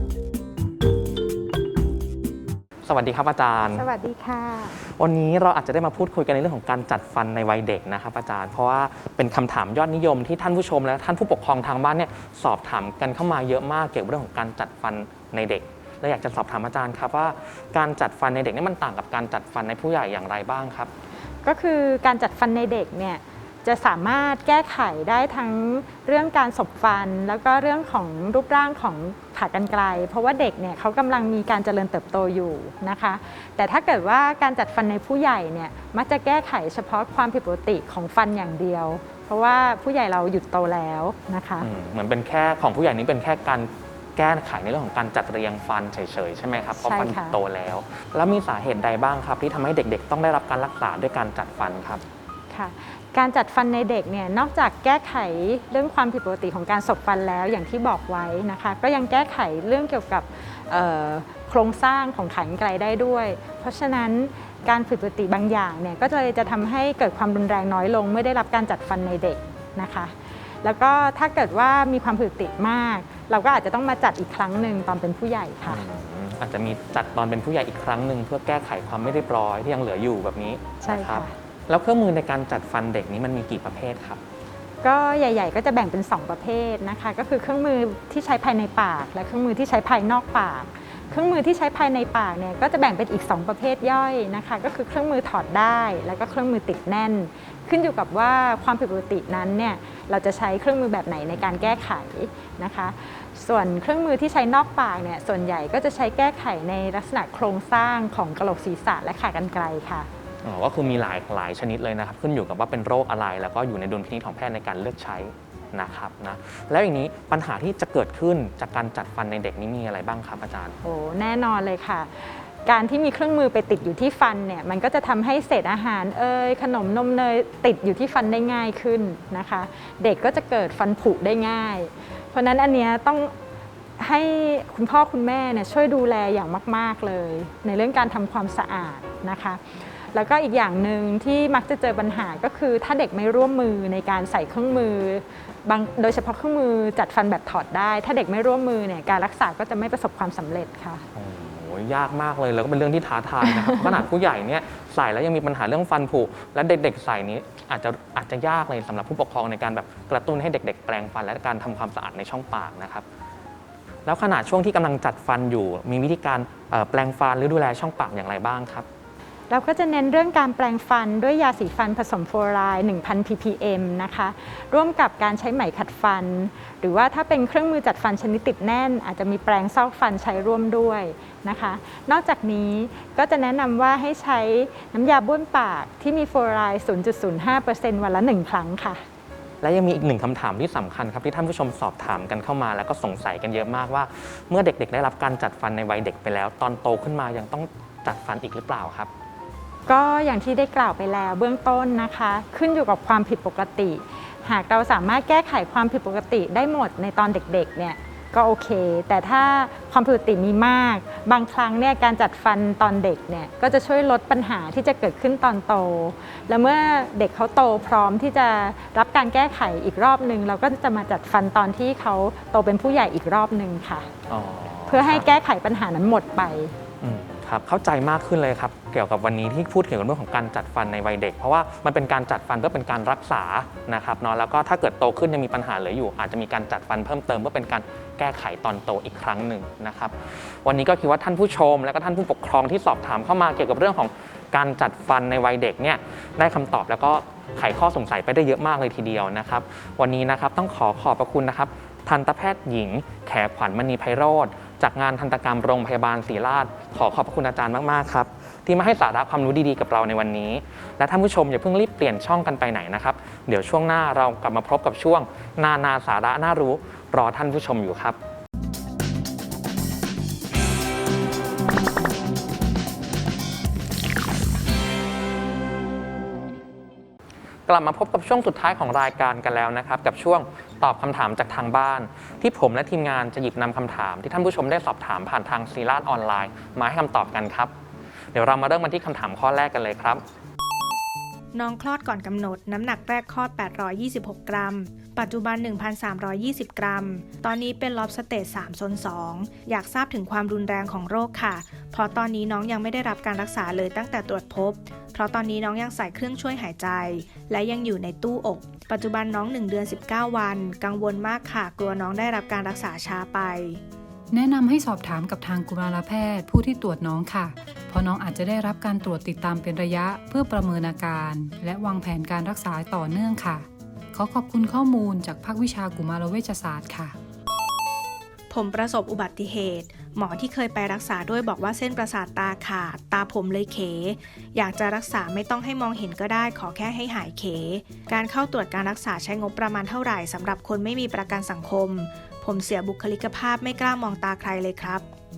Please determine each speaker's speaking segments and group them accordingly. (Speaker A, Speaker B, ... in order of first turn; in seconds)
Speaker A: 2.9-3.9, 4.8-20.9, 41.6-52.0, 75.7-84.2, 110.4-120.8, 151.2-163.1, 164.1-168.9, 189.6-199.1, 224.3-225.3, 227.0-268.2, 277.7-287.7, 288.3-290.2
Speaker B: 3.7-4.8, 21.4-41.7, 46.8-47.4, 52.5-75.8, 80.8-81.3, 84.8-110.1, 120.8-133.3, 134.0-151.0, 169.5-189.0, 199.9-224.1, 224.9-226.8
Speaker C: 291.5-313.8, 328.5-345.1
Speaker D: 314.3-327.2